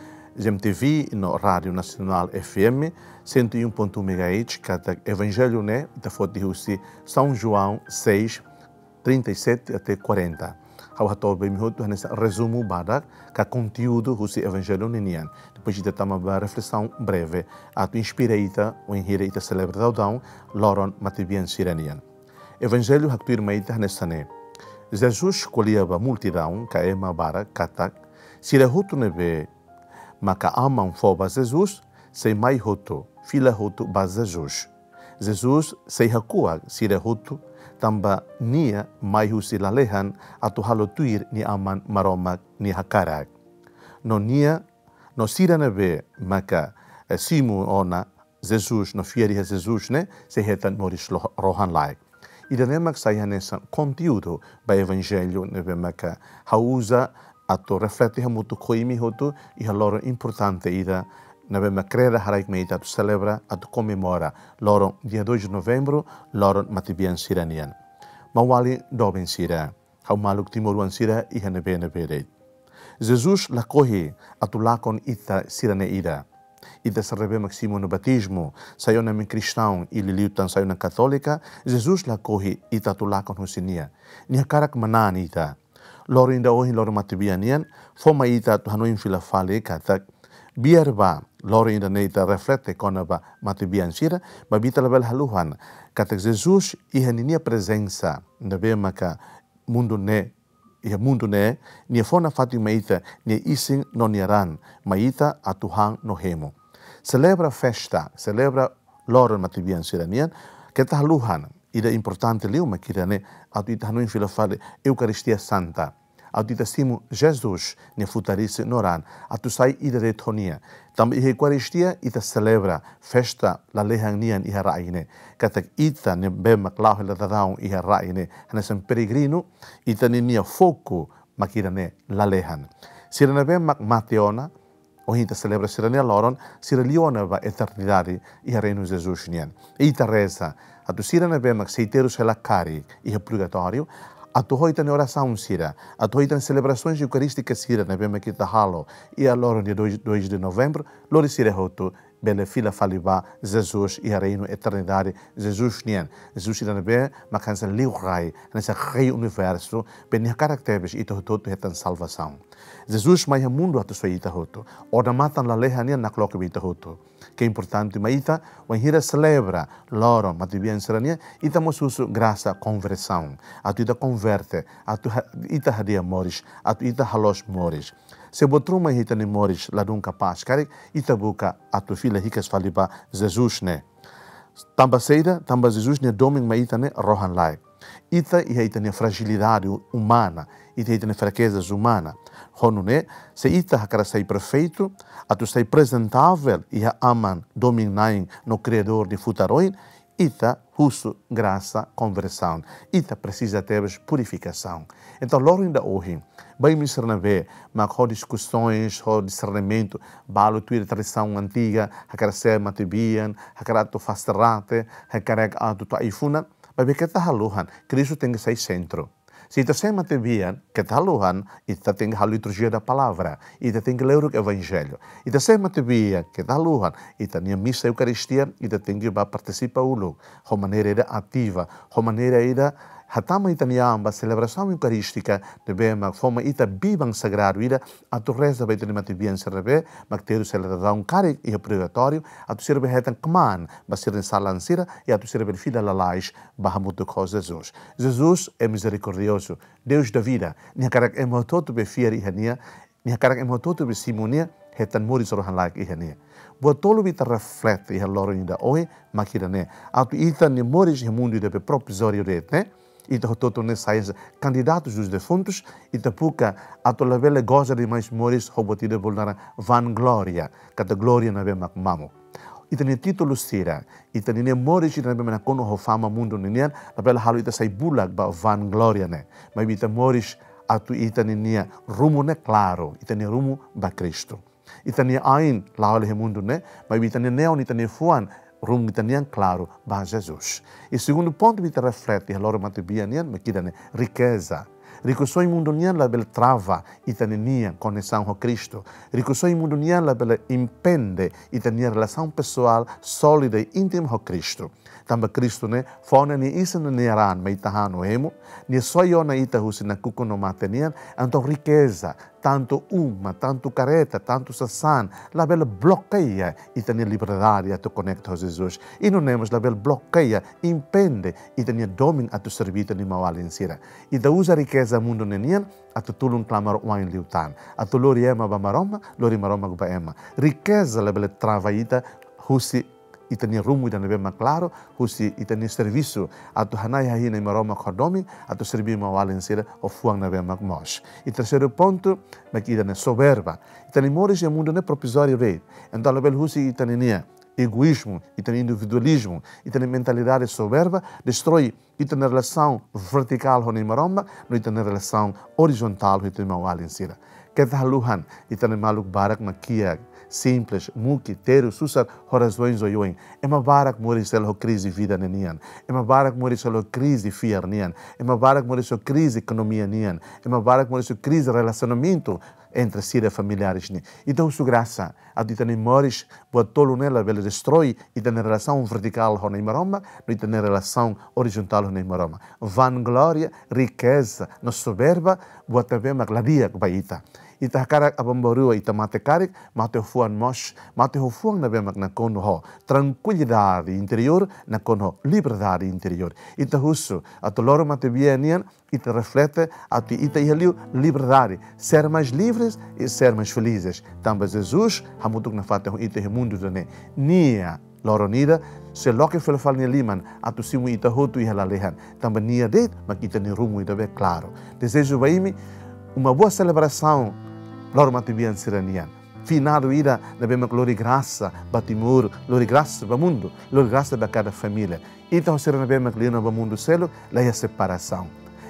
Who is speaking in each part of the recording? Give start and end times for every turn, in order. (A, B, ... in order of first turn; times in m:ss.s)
0:00.3-0:08.4 A
0:09.0-0:22.0 A
0:22.6-0:24.3 A
0:24.9-0:29.5 A
0:30.2-0:43.3 A
0:44.0-0:44.6 A
0:45.2-1:07.7 A
1:08.3-1:12.3 A
1:13.0-1:16.2 A
1:16.8-1:25.6 A
1:26.1-1:30.0 A
1:30.6-2:14.5 A
2:15.1-3:03.8 A
3:04.8-4:32.1 A
4:32.7-6:55.6 A
6:56.1-6:57.4 A
6:57.9-7:08.3 A